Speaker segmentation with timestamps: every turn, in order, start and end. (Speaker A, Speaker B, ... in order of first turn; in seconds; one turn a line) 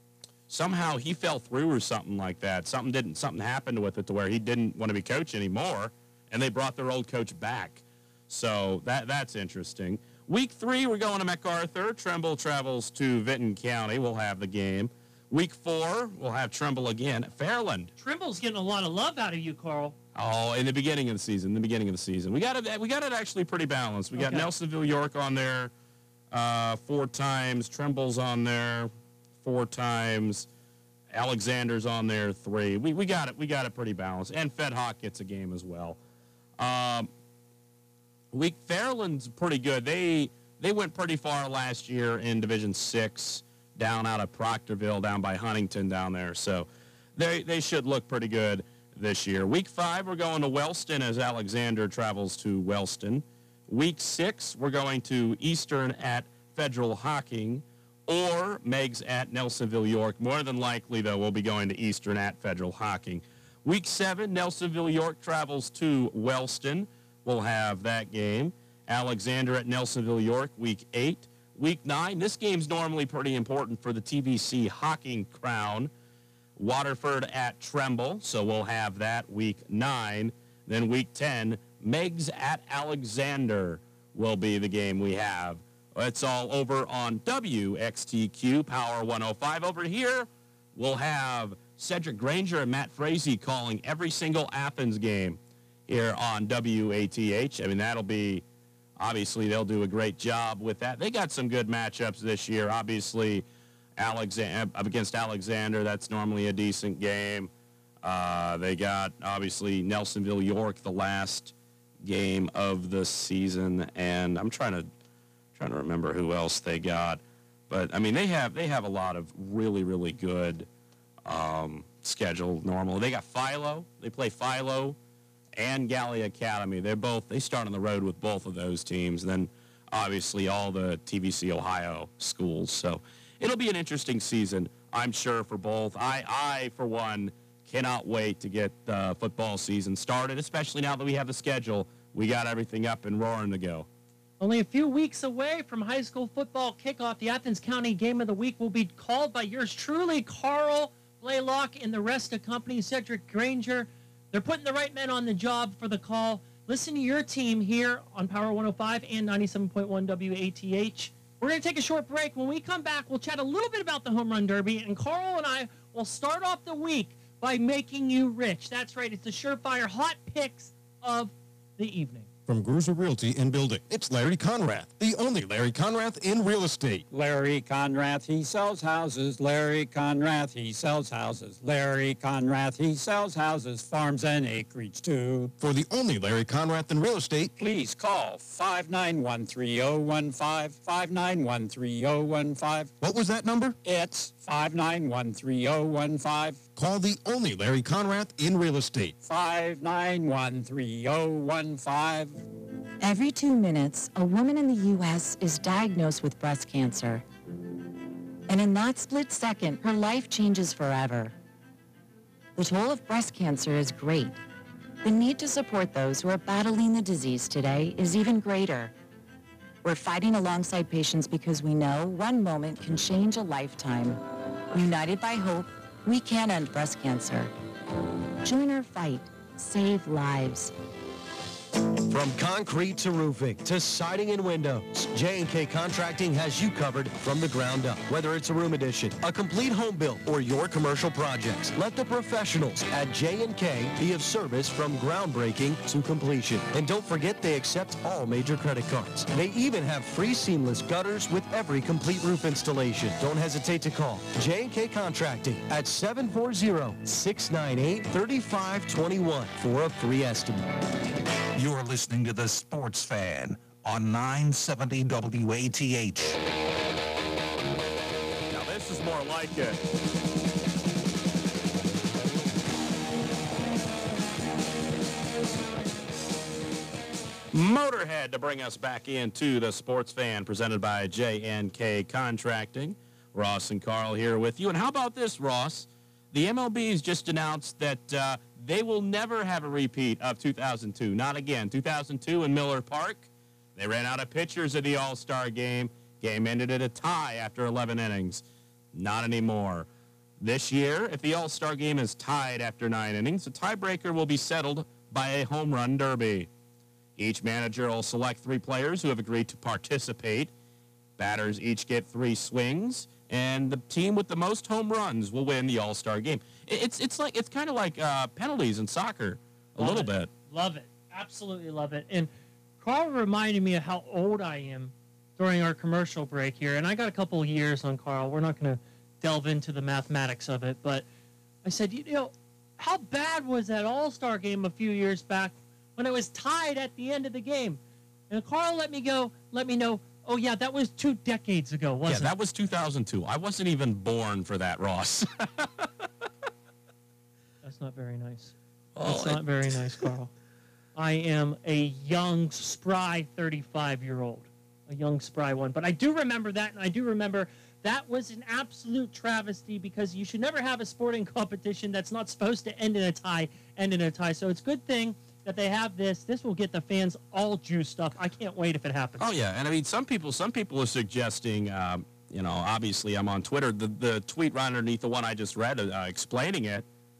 Speaker A: 0.5-17.9
Speaker B: 18.0-19.9
Speaker A: 20.1-25.7
Speaker B: 24.2-24.5
Speaker A: 26.3-28.9
Speaker A: 29.4-30.5
Speaker A: 31.1-36.0
Speaker A: 36.6-37.1
Speaker A: 38.3-75.9
Speaker A: 76.6-98.4
Speaker A: 99.0-103.5
Speaker A: 104.0-107.5
Speaker A: 108.0-114.9
Speaker A: 115.5-120.7
Speaker A: 121.2-125.0
Speaker A: 125.5-143.9
Speaker B: 144.4-172.3
Speaker C: 172.5-177.1
Speaker D: 177.1-185.5
Speaker C: 185.6-187.5
Speaker D: 187.6-192.9
Speaker C: 193.0-193.8
Speaker D: 193.8-196.6
Speaker C: 196.8-199.1
Speaker D: 199.2-202.4
Speaker E: 203.0-207.2
Speaker E: 208.5-211.3
Speaker E: 212.6-214.3
Speaker E: 215.0-218.9
Speaker E: 219.8-224.2
Speaker E: 224.7-227.5
Speaker E: 228.4-230.7
Speaker F: 232.1-260.6
Speaker G: 261.6-266.4
Speaker A: 268.5-269.8
Speaker A: 277.5-299.9
Speaker A: 300.4-306.5
Speaker A: 307.2-310.5
Speaker A: 311.2-320.3
Speaker B: 319.8-331.1
Speaker B: 331.6-342.3
Speaker A: 342.1-345.9
Speaker B: 347.6-350.3
Speaker A: 348.9-349.8
Speaker B: 350.9-369.3
Speaker A: 369.2-376.9